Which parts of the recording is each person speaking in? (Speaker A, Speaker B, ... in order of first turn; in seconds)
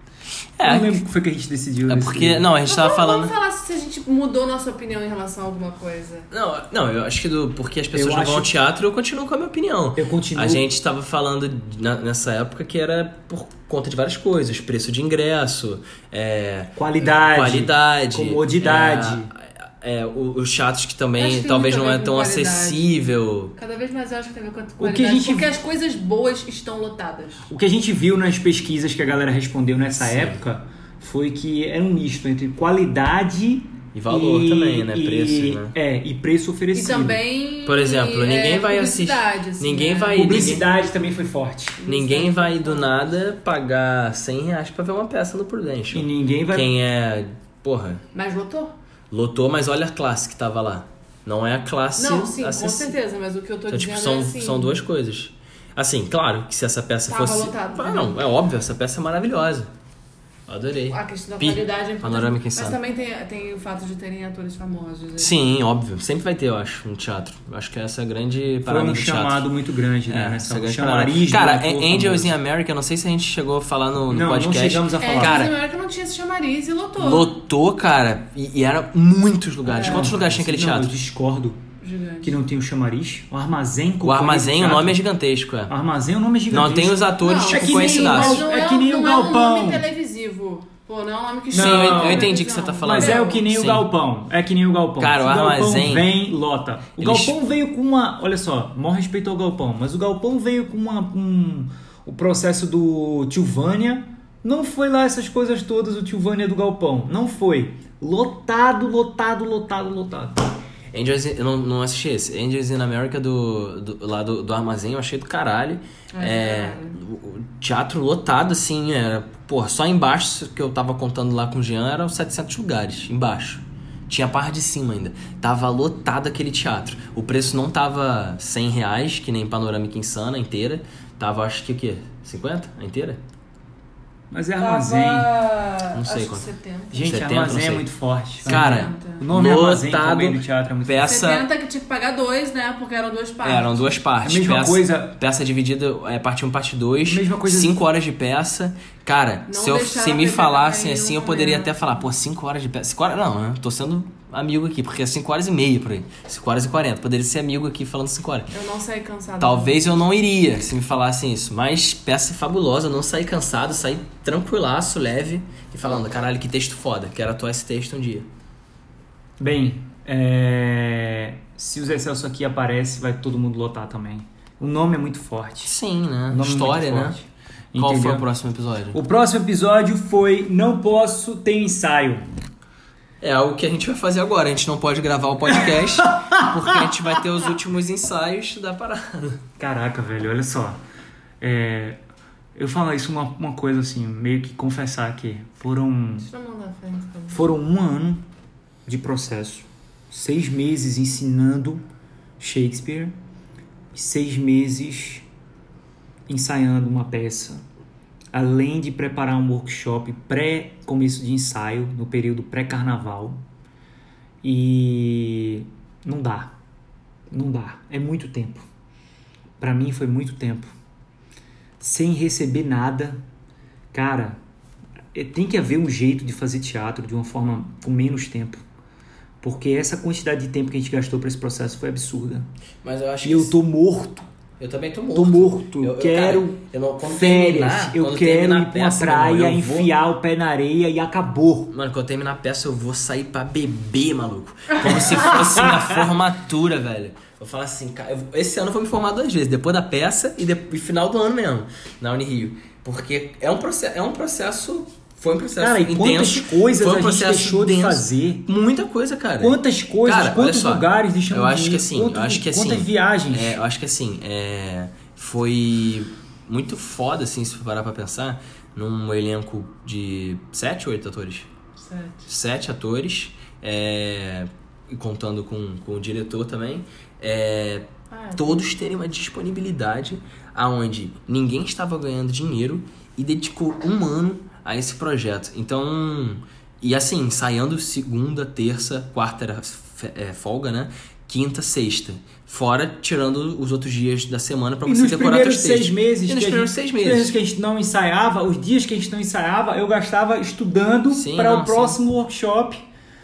Speaker A: 0.6-1.0, 1.9-3.3, 6.3-23.5, 30.0-30.3, 33.9-35.7, 37.6-40.7, 41.9-48.0, 49.1-53.0, 53.7-59.7, 60.5-62.8, 65.2-69.5, 70.1-75.5, 77.0-81.0, 84.0-85.7, 86.5-88.5, 91.5-93.9, 95.0-96.1, 97.0-97.4, 110.9-133.2, 135.9-136.4, 137.0-137.9, 138.4-141.5, 143.4-158.5, 159.4-168.3, 175.7-177.2, 177.8-179.0, 183.2-189.4, 232.8-233.5, 234.6-239.9, 241.7-271.5, 272.2-297.3, 301.1-302.0
Speaker B: 0.6-2.5, 7.9-8.5, 9.9-10.7, 16.8-19.3, 24.8-25.5, 27.5-37.2, 40.1-41.8, 45.9-46.7, 68.7-72.3, 74.1-75.5, 79.8-81.6, 82.2-85.0, 85.7-89.8, 91.5-92.3, 92.8-110.5, 134.3-135.3, 136.9-141.1, 144.2-145.2, 147.1-147.8, 169.4-175.7, 176.3-178.2, 178.9-182.2, 185.6-186.8, 189.6-190.8, 191.4-192.0, 192.5-196.3, 197.3-198.2, 198.8-201.8, 202.4-203.1, 203.9-205.2, 206.3-207.6, 208.3-213.4, 214.4-216.5, 217.3-218.7, 219.6-220.7, 221.8-223.2, 223.9-224.4, 225.1-228.6, 229.4-232.5, 233.2-234.3, 235.1-241.7, 245.3-245.9, 255.6-258.5, 259.4-263.6, 294.8-302.8
Speaker C: 2.6-6.3, 21.2-22.9, 23.6-27.5, 36.7-40.5, 41.8-43.0, 48.1-48.7, 52.0-54.8, 57.1-58.2, 60.9-65.3, 75.0-77.3, 79.7-80.1, 81.8-82.4, 87.2-93.4, 116.1-117.0, 134.6-137.2, 138.4-139.2, 141.0-143.8, 149.5-151.7, 158.5-159.8, 196.2-197.4, 271.8-272.3, 278.1-278.7